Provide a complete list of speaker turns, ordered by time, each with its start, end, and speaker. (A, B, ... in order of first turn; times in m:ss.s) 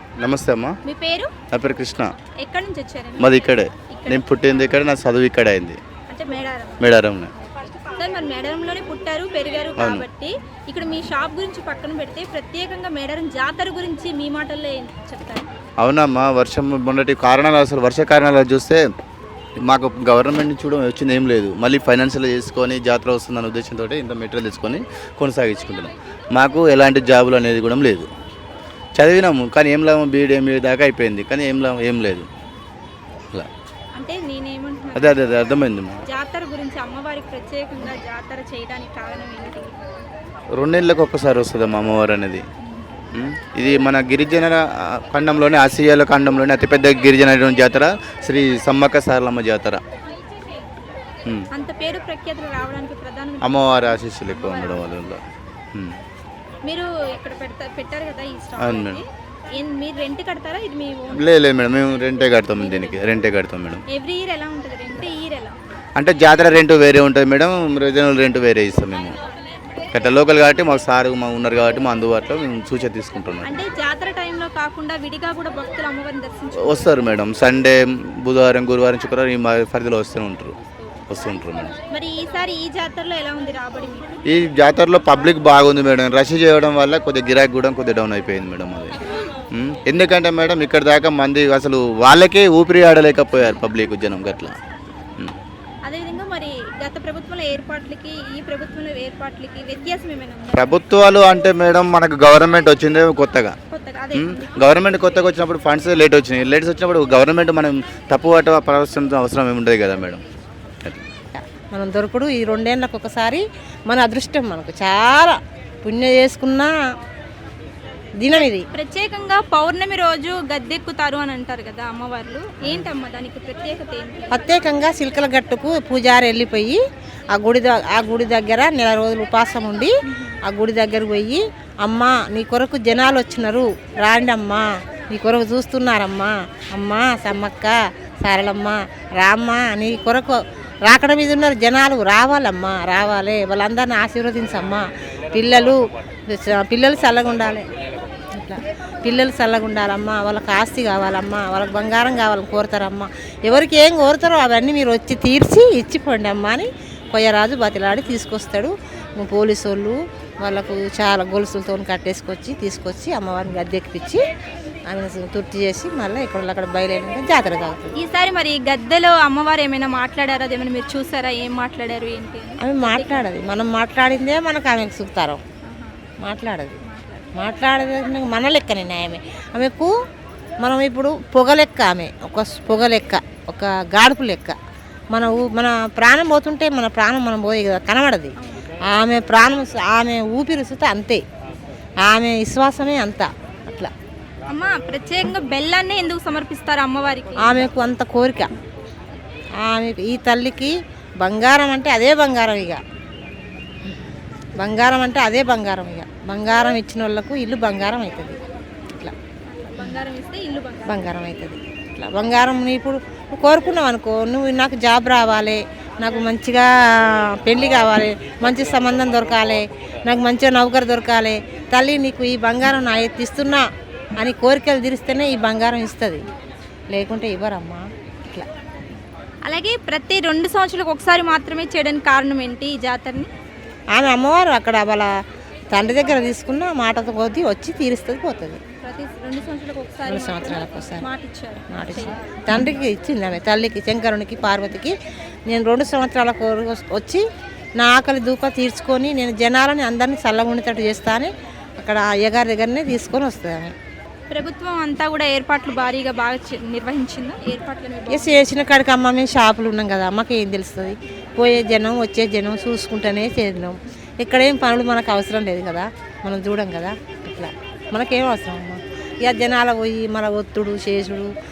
0:00.2-0:00.8 A
0:00.8-0:01.3 B
0:01.5-0:02.1 A
0:02.4-0:04.8 B
0:03.2-0:05.8 A
0:06.1-0:07.0 B
0:06.8-0:07.3 A
0:07.6-0:15.5 B
0:09.8-0:10.0 A
0:15.8-0:18.8 A
0:19.6-0:28.1 A
0:29.0-0:32.3 A
0:33.9-0:39.7 B
0:34.9-0:36.0 A
0:40.5-0:42.4 A
0:43.1-0:49.8 A
0:51.5-0:54.9 B
0:53.4-0:55.2 A
0:55.7-0:56.0 A
0:56.6-1:01.2 B
0:58.6-0:59.0 A
1:01.1-1:03.8 A
1:02.5-1:03.1 B
1:03.9-1:05.6 B
1:06.0-1:09.1 A
1:09.9-1:13.6 A
1:13.4-1:17.0 B
1:16.6-1:20.6 A
1:21.1-1:21.7 A
1:21.9-1:24.2 B
1:24.2-1:29.0 A
1:29.5-1:34.5 A
1:35.8-1:40.7 B
1:40.5-1:43.6 A
1:43.7-1:45.3 B
1:44.1-1:50.2 A
1:51.3-1:56.7 C
1:58.2-1:58.6 C
1:58.3-2:04.4 B
2:02.6-2:02.9 C
2:04.3-2:06.8 C
2:07.3-2:09.9 C
2:10.0-2:10.4 B
2:10.5-2:25.8 C
2:26.3-2:27.7 C
2:28.3-2:44.2 C
2:44.9-2:47.9 C
2:48.0-2:53.3 B
2:52.6-2:55.4 C
2:55.6-2:56.0 B
2:56.2-2:56.8 C
2:56.8-2:57.4 B
2:57.3-2:59.9 C
3:00.6-3:04.6 C
3:05.1-3:08.3 C
3:08.9-3:11.2 C
3:12.0-3:13.9 C
3:14.5-3:17.6 B
3:17.4-3:18.5 C
3:19.6-3:22.8 C
3:24.6-3:28.4 C
3:29.5-3:31.0 B
3:30.9-3:43.6 C
3:44.2-3:46.2 C
3:46.9-3:48.4 C
3:49.4-3:53.3 B
3:53.9-3:55.1 C
3:55.7-3:58.6 C
3:58.8-4:02.2 B
4:00.0-4:01.1 C
4:01.7-4:04.9 C
4:05.5-4:07.2 C
4:07.8-4:13.7 C
4:14.3-4:18.4 B
4:18.1-4:31.3 C